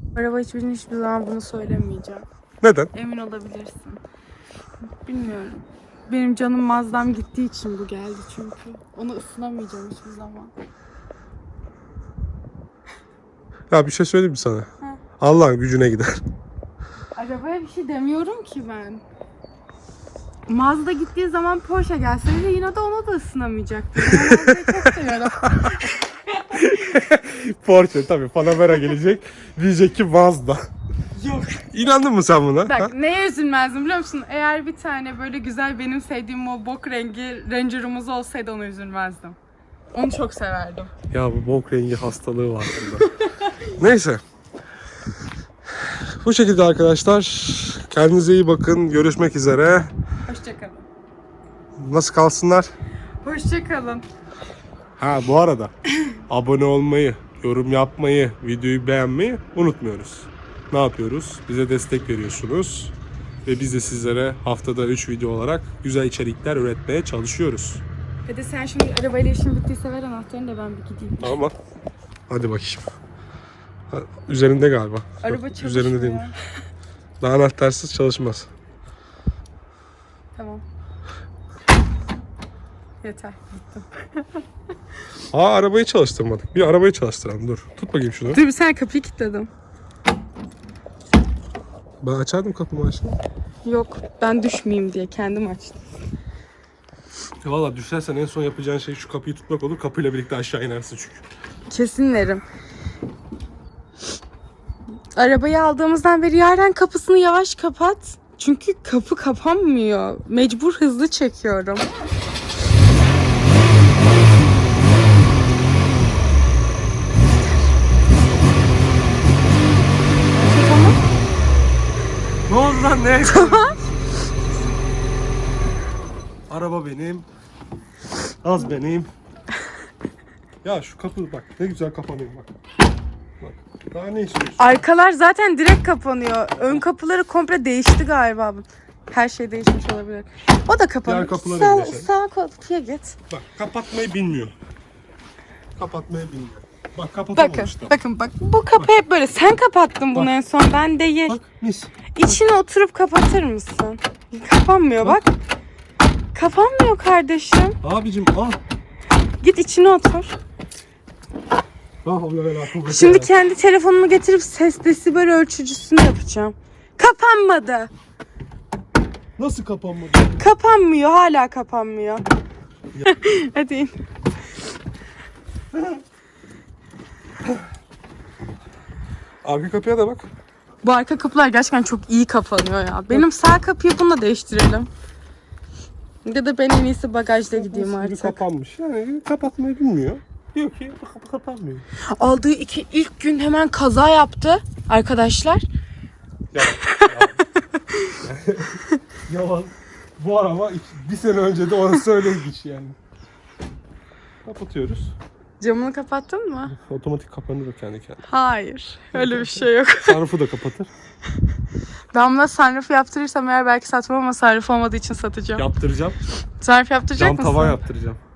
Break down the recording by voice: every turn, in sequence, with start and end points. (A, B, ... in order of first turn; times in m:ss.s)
0:00.1-0:02.2 A
0:02.6-0:02.9 B
0:02.9-0:04.0 A
0:05.0-0:10.5 A
0:13.7-0:14.7 B
0:15.2-0:16.2 B
0:17.2-0:19.0 A
0:20.5-0:26.9 A
0:24.1-0:24.9 B
0:26.5-0:30.7 B
0:31.1-0:31.7 A
0:31.7-0:32.9 B
0:32.6-0:39.4 A
0:39.9-0:40.9 A
0:41.1-0:43.1 B
0:43.0-0:43.5 A
0:43.8-0:44.2 B
0:45.8-0:49.9 B
0:50.3-0:50.9 A
0:51.8-0:52.7 B
0:53.2-0:54.0 A
0:55.0-0:55.7 B
0:56.3-1:02.9 B
1:03.4-1:07.8 B
1:08.3-1:11.4 A
1:11.2-1:11.5 B
1:12.3-1:12.8 B
1:13.9-1:16.3 B
1:15.2-1:16.4 A
1:17.2-1:18.5 B
1:20.3-1:20.6 A
1:23.0-1:24.4 A
1:25.3-1:28.4 B
1:28.3-1:29.5 A
1:32.0-1:33.2 B
1:33.6-1:35.8 A
1:37.4-1:41.2 B
1:41.7-1:42.4 A
1:45.1-1:51.9 A
2:00.3-2:01.0 A
2:02.5-2:04.2 B
2:03.2-2:03.7 A
2:06.5-2:07.3 B
2:08.4-2:09.1 B
2:10.6-2:12.5 B
2:13.4-2:14.6 B
2:14.6-2:23.2 A
2:21.0-2:22.1 B
2:23.3-2:24.5 B
2:25.8-2:27.9 B
2:27.4-2:31.4 A
2:31.3-2:32.4 B
2:32.1-2:35.3 A
2:36.3-2:37.8 A
2:37.8-2:38.6 B
2:39.4-2:40.4 A
2:42.0-2:43.3 B
2:42.8-2:47.9 A
2:49.4-2:50.4 B
2:50.4-2:52.3 A
2:53.0-2:53.9 A
2:59.4-3:00.3 B
3:00.8-3:04.9 A
3:06.2-3:08.4 A
3:07.5-3:11.8 B
3:12.1-3:15.6 A
3:16.5-3:17.4 B
3:16.8-3:17.1 A
3:17.7-3:18.2 A
3:18.2-3:23.0 B
3:24.4-3:25.2 B
3:25.6-3:26.7 A
3:26.7-3:28.2 B
3:28.2-3:30.2 A
3:29.1-3:30.9 B
3:32.1-3:35.6 A
3:35.5-3:36.2 B
3:36.6-3:37.8 A
3:37.2-3:38.2 B